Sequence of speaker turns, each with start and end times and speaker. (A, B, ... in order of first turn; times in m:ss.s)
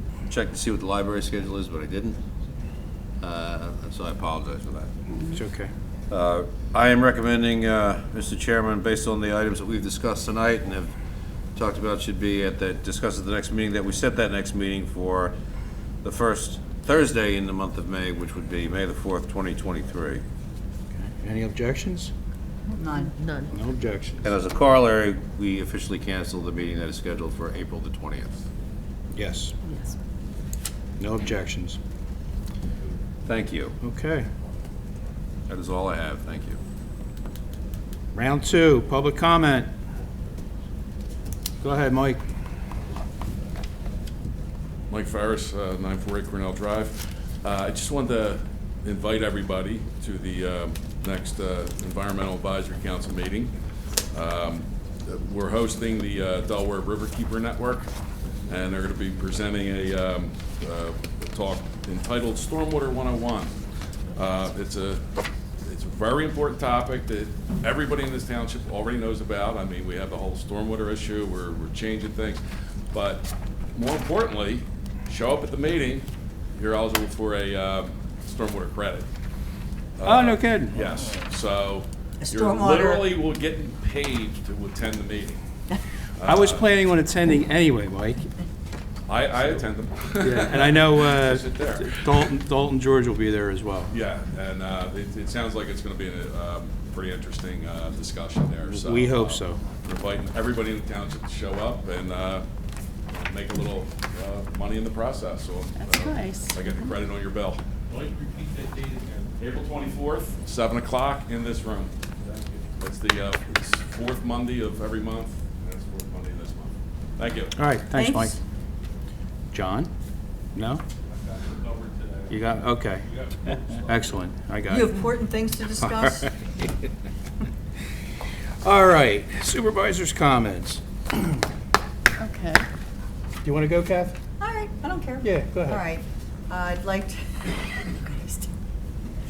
0:00.3-0:02.2 A
0:03.2-0:05.0 A
0:05.3-0:05.7 B
0:06.1-0:10.9 A
0:11.5-0:15.3 A
0:16.0-0:20.2 A
0:20.9-0:22.1 B
0:22.8-0:23.1 C
0:22.8-0:23.5 D
0:23.5-0:24.2 B
0:24.2-0:28.4 A
0:29.1-0:29.6 B
0:29.6-0:29.9 D
0:31.0-0:31.8 B
0:33.2-0:33.7 A
0:33.8-0:34.3 B
0:35.5-0:36.6 A
0:38.1-0:39.7 B
0:41.6-0:42.2 B
0:44.9-0:53.5 E
0:54.1-0:57.9 E
0:58.5-1:03.5 E
1:04.1-1:05.0 E
1:05.6-1:12.4 E
1:12.9-1:19.0 E
1:20.0-1:25.4 E
1:20.0-1:20.8 B
1:22.2-1:23.2 C
1:26.2-1:26.6 E
1:26.2-1:28.3 B
1:29.1-1:32.3 E
1:30.2-1:33.9 B
1:33.9-1:42.4 E
1:38.6-1:39.6 B
1:43.1-1:57.6 E
1:45.9-1:46.5 D
1:57.6-1:58.4 B
1:58.0-1:58.4 C
1:59.5-1:59.9 B
2:00.5-2:00.8 B
2:01.1-2:02.3 E
2:02.3-2:03.0 B
2:03.0-2:04.1 E
2:03.8-2:05.0 B
2:04.7-2:06.4 C
2:05.8-2:06.3 B
2:08.6-2:11.4 B
2:12.2-2:12.6 D
2:13.4-2:14.2 B
2:14.4-2:18.5 C
2:15.2-2:15.8 B